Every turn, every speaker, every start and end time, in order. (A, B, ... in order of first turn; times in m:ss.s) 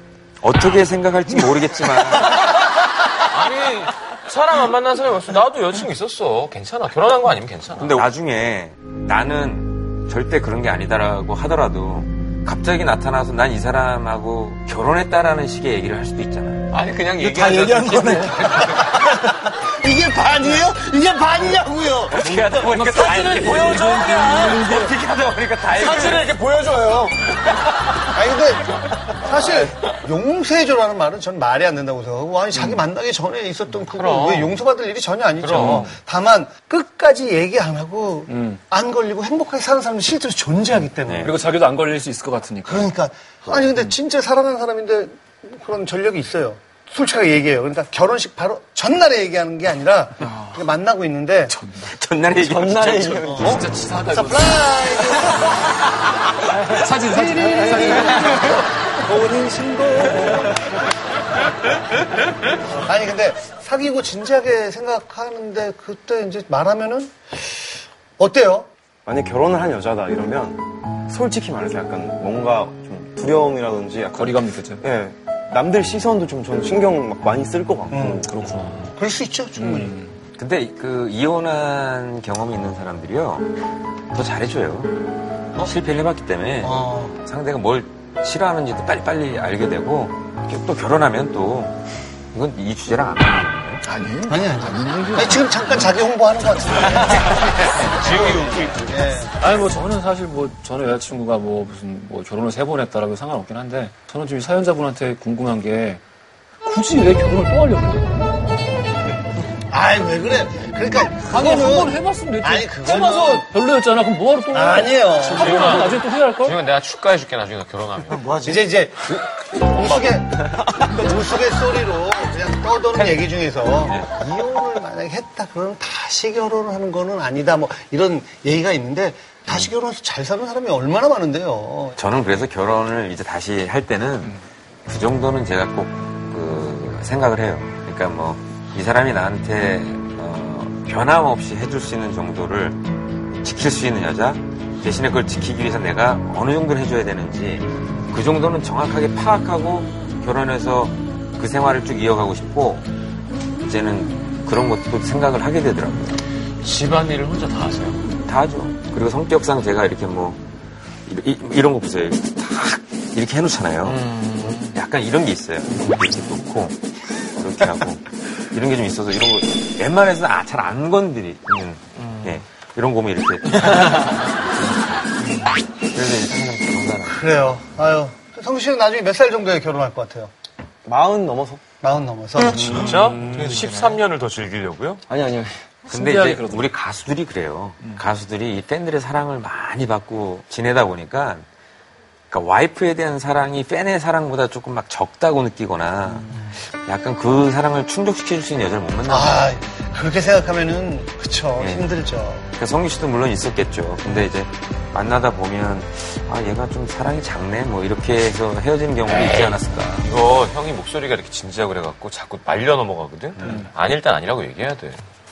0:00.4-0:02.6 A
0:03.2-0:08.1 B
0:07.8-0:16.6 A
0:16.7-0:19.0 B
0:17.2-0:19.3 C
0:18.8-0:22.4 D
0:22.1-0:26.3 A
0:22.6-0:24.7 E
0:23.0-0:24.9 C
0:25.7-0:27.2 C
0:28.1-0:41.3 D
0:32.5-0:32.8 E
0:33.9-0:34.6 B
0:35.4-0:35.9 B
0:38.3-0:38.6 E
0:41.2-0:42.9 E
0:42.6-0:51.6 D
0:51.7-0:53.4 A
0:52.4-0:53.7 F
0:53.4-0:55.5 D
0:53.4-0:54.7 E
0:56.7-0:58.6 E
0:57.0-1:00.8 D
1:02.7-1:07.5 D
1:08.2-1:08.7 D
1:09.0-1:18.3 F
1:14.1-1:14.8 E
1:17.9-1:18.3 D
1:17.9-1:18.9 E
1:18.9-1:20.0 D
1:19.6-1:20.1 E
1:20.4-1:23.5 A
1:24.1-1:24.9 A
1:25.6-1:31.8 A
1:26.6-1:27.2 D
1:32.3-1:33.8 A
1:33.8-1:36.0 E
1:34.3-1:39.4 D
1:36.9-1:39.0 B
1:39.4-1:46.0 E
1:46.6-1:48.5 E
1:49.7-1:53.5 D
1:51.2-1:56.6 E
1:54.5-1:55.8 D
1:55.3-1:58.2 B
1:58.1-1:58.6 C
1:58.4-2:12.0 D
2:03.8-2:04.1 A
2:12.0-2:22.8 A
2:23.4-2:32.9 A
2:33.6-2:36.2 A
2:36.6-2:38.1 B
2:38.2-2:40.4 A
2:41.0-2:46.8 A
2:44.3-2:44.6 C
2:47.4-2:55.0 A
2:55.9-2:57.2 A
2:57.1-3:00.3 D
3:00.8-3:01.6 F
3:01.8-3:03.0 D
3:02.5-3:05.0 B
3:03.1-3:03.8 E
3:03.6-3:03.9 C
3:05.1-3:05.7 F
3:05.9-3:06.7 E
3:05.9-3:11.4 A
3:12.3-3:19.6 A
3:19.0-3:22.4 D
3:21.6-3:21.9 A
3:22.5-3:30.1 A
3:30.0-3:35.0 B